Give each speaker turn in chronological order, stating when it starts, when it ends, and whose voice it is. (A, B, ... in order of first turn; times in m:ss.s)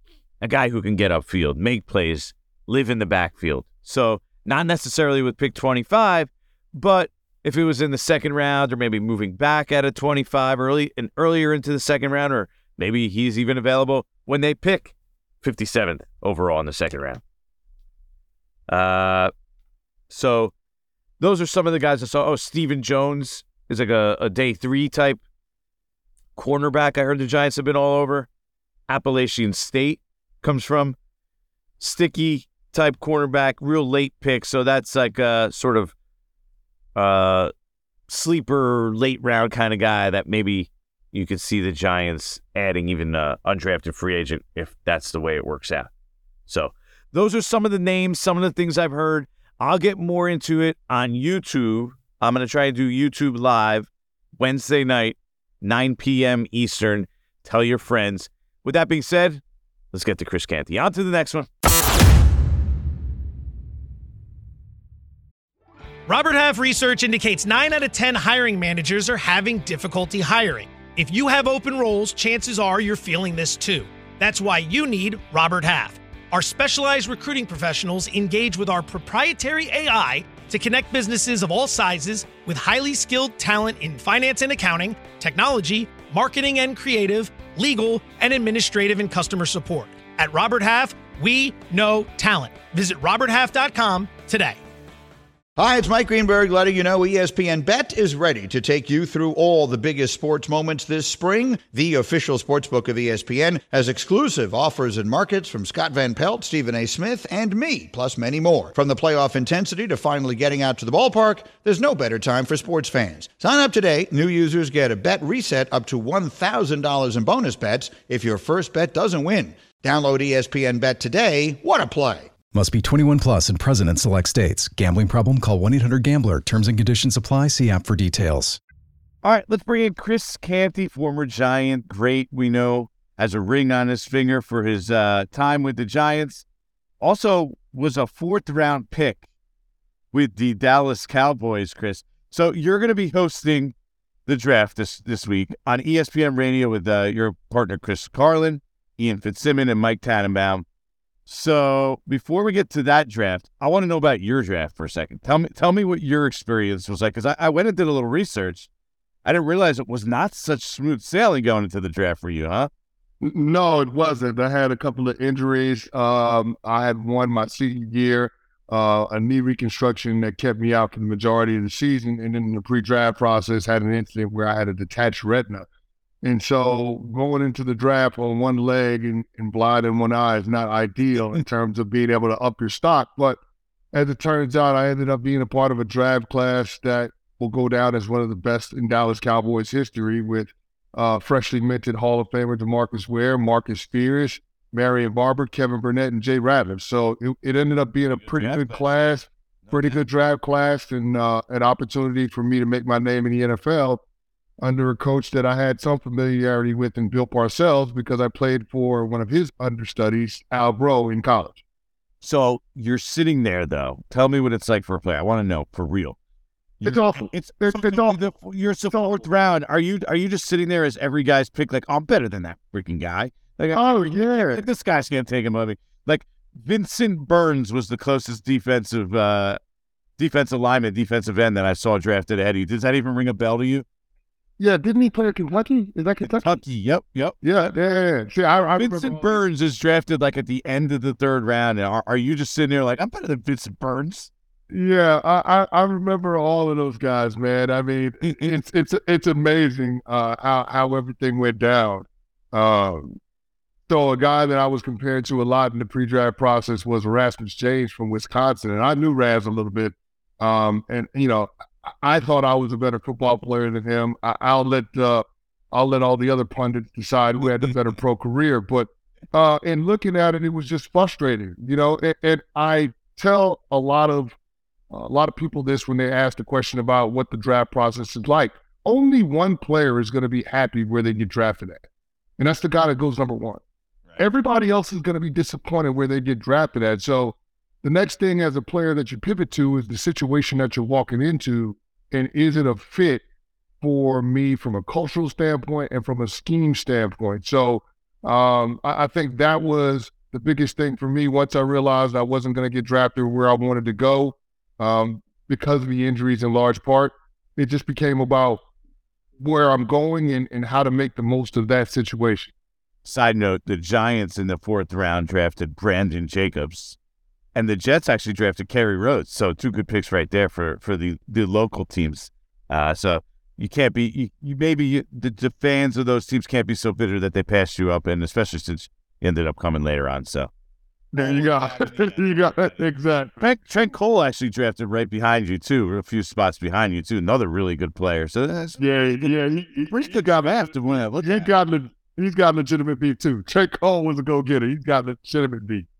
0:00.4-0:17.2 A
0:18.7-0:19.3 A
0:20.1-0:20.5 A
0:21.2-0:25.2 A
0:26.4-0:28.3 A
0:28.9-0:31.0 A
0:31.8-0:35.9 A
0:37.0-0:37.5 A
0:38.1-0:45.9 A
0:46.5-1:01.5 A
1:06.1-1:34.6 B
1:35.6-2:02.3 C
2:02.5-2:08.6 D
2:09.2-2:16.4 A
2:17.0-2:19.2 A
2:20.1-2:23.7 A
2:24.3-2:30.6 A
2:31.3-2:38.7 A
2:39.2-2:42.7 A
2:43.2-2:55.7 E
2:56.2-3:03.4 E
3:03.9-3:24.0 E
3:18.2-3:18.8 A
3:19.7-3:20.0 A
3:24.6-3:31.6 E
3:32.2-3:36.2 A
3:36.8-3:43.8 A
3:36.8-3:38.2 E
3:38.9-3:39.2 E
3:43.7-3:44.6 E
3:44.5-3:49.6 A
3:50.2-3:53.8 A
3:54.6-3:56.6 E
3:56.3-3:57.4 A
3:57.4-3:59.4 E
3:58.8-4:04.3 A
4:04.7-4:13.2 E
4:13.9-4:34.4 E
4:34.9-4:41.8 E
4:42.4-4:43.6 E
4:44.2-4:53.2 E
4:53.8-5:08.6 E
5:09.4-5:12.5 E
5:13.0-5:17.0 A
5:17.5-5:30.5 A
5:31.1-5:33.4 E
5:31.2-5:32.3 A
5:33.4-5:38.8 A
5:38.8-5:40.6 E
5:39.9-5:41.5 A
5:41.2-5:45.9 E